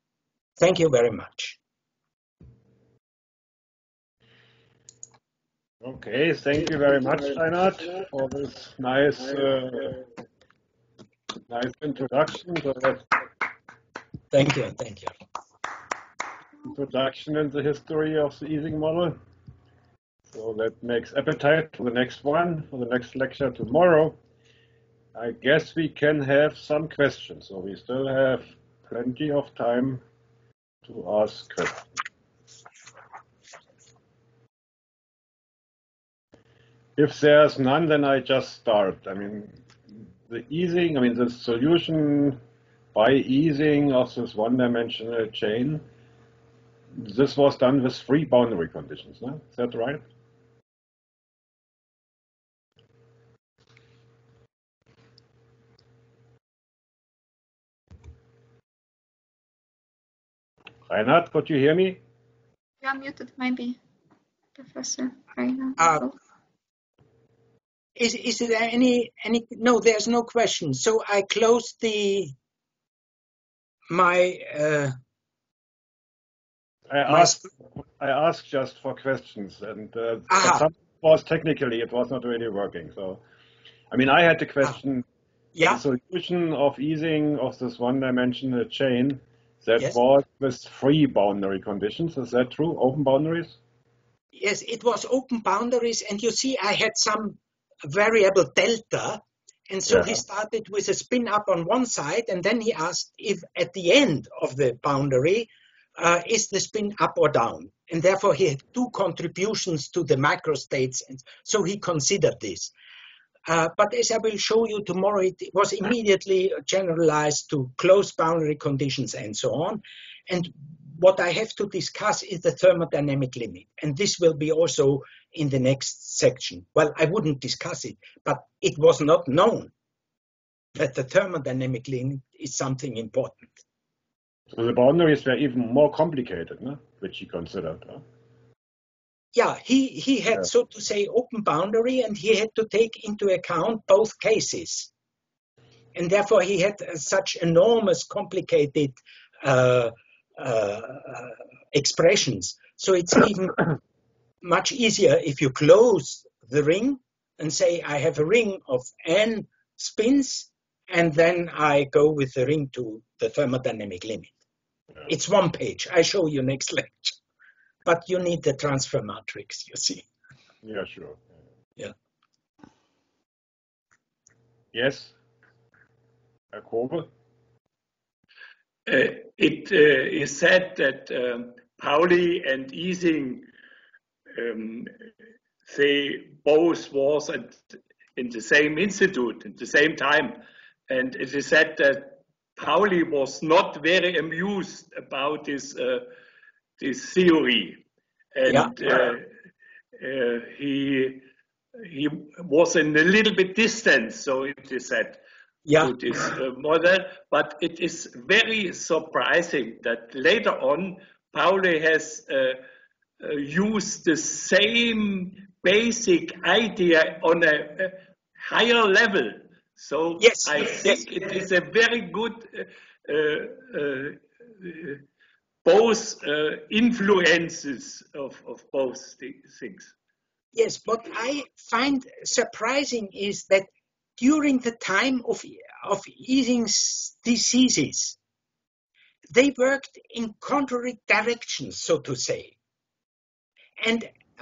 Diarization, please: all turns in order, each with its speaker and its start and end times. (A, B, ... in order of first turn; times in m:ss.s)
0:00.6-0:01.6 A
0:05.8-0:10.0 B
0:11.5-0:13.1 B
0:14.3-0:15.1 A
0:16.6-0:19.2 B
0:20.3-0:24.2 B
0:25.2-0:30.0 B
0:30.8-0:31.9 B
0:37.0-0:39.5 B
0:40.3-0:42.4 B
0:42.9-0:45.8 B
0:46.9-0:50.0 B
1:00.9-1:02.0 B
1:02.8-1:03.8 C
1:04.6-1:06.1 C
1:05.8-1:06.0 A
1:08.0-1:12.4 A
1:13.9-1:14.9 A
1:16.9-1:23.2 B
1:17.1-1:17.5 A
1:20.3-1:20.7 A
1:23.9-1:25.0 B
1:25.6-1:25.8 A
1:25.6-1:33.6 B
1:34.3-1:52.7 A
1:39.9-1:40.1 B
1:53.5-2:09.7 A
2:10.8-2:13.6 A
2:14.5-2:18.0 B
2:19.4-2:24.9 A
2:26.0-2:33.6 A
2:34.4-2:44.4 A
2:45.1-2:47.2 A
2:47.8-2:50.1 A
2:50.6-2:51.2 B
2:54.7-2:55.2 B
2:56.5-2:57.1 B
2:58.9-3:03.5 D
3:04.4-3:04.9 D
3:05.7-3:07.6 D
3:08.2-3:16.1 D
3:16.8-3:17.8 D
3:18.4-3:19.2 D
3:18.5-3:18.8 A
3:20.0-3:21.3 D
3:21.8-3:25.2 D
3:25.7-3:26.0 A
3:25.8-3:32.6 D
3:33.2-3:45.0 D
3:40.2-3:41.1 A
3:45.6-3:49.9 D
3:50.5-3:58.2 A
3:59.3-4:02.6 A
4:03.8-4:04.1 A